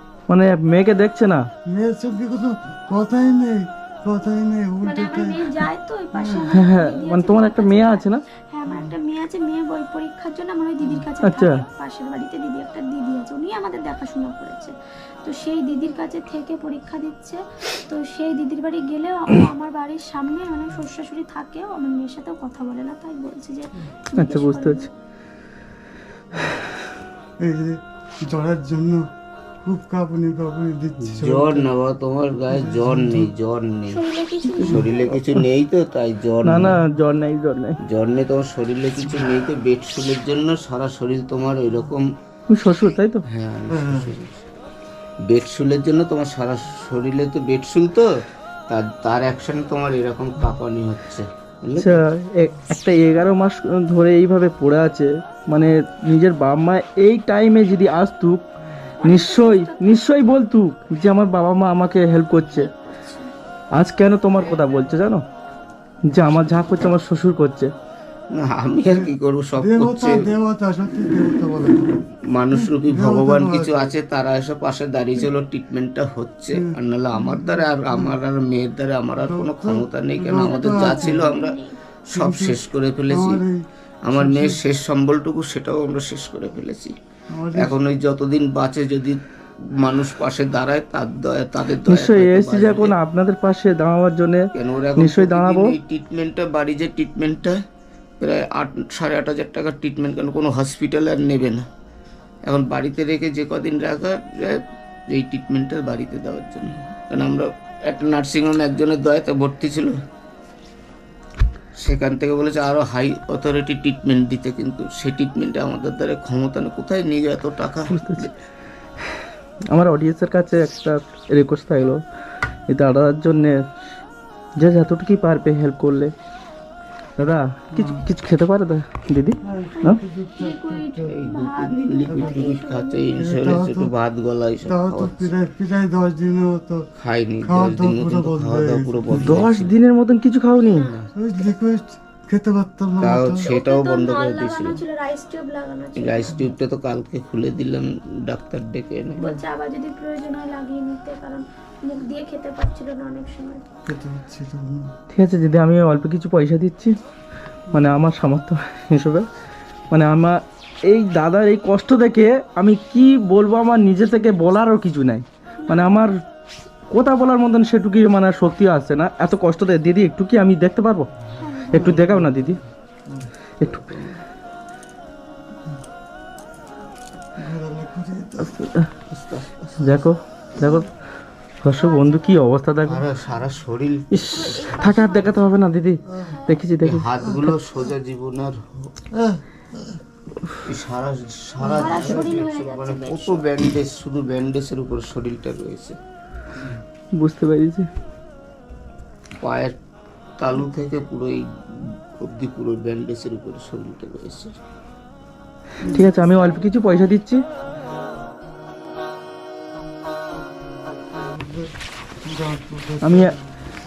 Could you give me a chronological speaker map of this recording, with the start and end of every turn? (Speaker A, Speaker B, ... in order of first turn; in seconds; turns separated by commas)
Speaker A: 0.3-1.5, Speaker B: 1.7-6.6, Speaker C: 4.8-24.9, Speaker A: 6.5-8.2, Speaker B: 8.7-8.9, Speaker A: 11.2-11.6, Speaker A: 24.2-24.9, Speaker B: 27.4-29.0, Speaker B: 29.6-31.7, Speaker D: 31.0-34.0, Speaker B: 32.5-33.3, Speaker C: 33.9-35.2, Speaker D: 34.6-36.8, Speaker A: 36.4-37.8, Speaker D: 37.8-42.1, Speaker A: 42.5-43.2, Speaker D: 43.3-44.4, Speaker B: 43.7-44.2, Speaker D: 45.2-48.1, Speaker D: 48.7-52.0, Speaker A: 51.8-58.4, Speaker C: 59.0-60.1, Speaker A: 59.0-62.7, Speaker C: 62.5-63.3, Speaker A: 63.8-65.2, Speaker A: 66.1-67.7, Speaker D: 68.3-70.3, Speaker B: 68.9-73.9, Speaker D: 72.3-81.6, Speaker B: 76.5-78.1, Speaker B: 79.2-81.4, Speaker C: 80.3-81.8, Speaker B: 82.1-84.6, Speaker D: 82.1-83.4, Speaker D: 84.0-87.0, Speaker B: 87.3-87.8, Speaker D: 87.6-93.0, Speaker A: 91.8-95.8, Speaker D: 94.5-97.6, Speaker D: 98.2-101.7, Speaker D: 102.5-110.0, Speaker D: 111.8-118.3, Speaker A: 117.9-118.3, Speaker A: 119.7-122.0, Speaker A: 122.7-123.6, Speaker A: 124.6-126.1, Speaker A: 127.2-130.0, Speaker B: 127.7-128.1, Speaker B: 129.4-131.2, Speaker C: 129.8-133.1, Speaker D: 131.1-135.3, Speaker B: 132.1-132.6, Speaker B: 133.2-133.9, Speaker B: 134.7-136.8, Speaker D: 137.0-139.8, Speaker B: 137.4-139.4, Speaker A: 139.1-140.9, Speaker C: 140.6-141.0, Speaker D: 140.7-141.1, Speaker B: 141.2-143.5, Speaker D: 143.0-144.8, Speaker C: 143.4-146.4, Speaker D: 146.0-149.2, Speaker B: 149.2-149.4, Speaker C: 149.2-153.6, Speaker B: 153.9-154.9, Speaker A: 155.1-157.0, Speaker A: 157.7-159.2, Speaker A: 159.9-166.1, Speaker C: 165.6-166.1, Speaker A: 166.9-171.1, Speaker C: 171.4-172.0, Speaker A: 171.7-172.6, Speaker B: 171.7-173.3, Speaker D: 173.6-174.2, Speaker B: 177.4-178.7, Speaker A: 178.4-178.9, Speaker D: 179.1-180.0, Speaker A: 179.8-180.9, Speaker A: 181.6-183.1, Speaker C: 181.7-182.5, Speaker D: 182.9-185.1, Speaker A: 184.1-187.1, Speaker C: 184.2-185.5, Speaker B: 186.1-186.4, Speaker C: 186.3-186.6, Speaker D: 186.8-188.9, Speaker B: 187.2-187.6, Speaker B: 189.1-190.0, Speaker D: 190.6-196.0, Speaker B: 191.6-192.4, Speaker C: 191.7-193.4, Speaker A: 197.2-197.9, Speaker D: 199.4-199.8, Speaker D: 200.4-204.6, Speaker B: 205.8-206.1, Speaker C: 205.9-207.2, Speaker A: 205.9-207.4, Speaker B: 211.1-211.7, Speaker B: 212.2-213.5, Speaker A: 213.0-213.3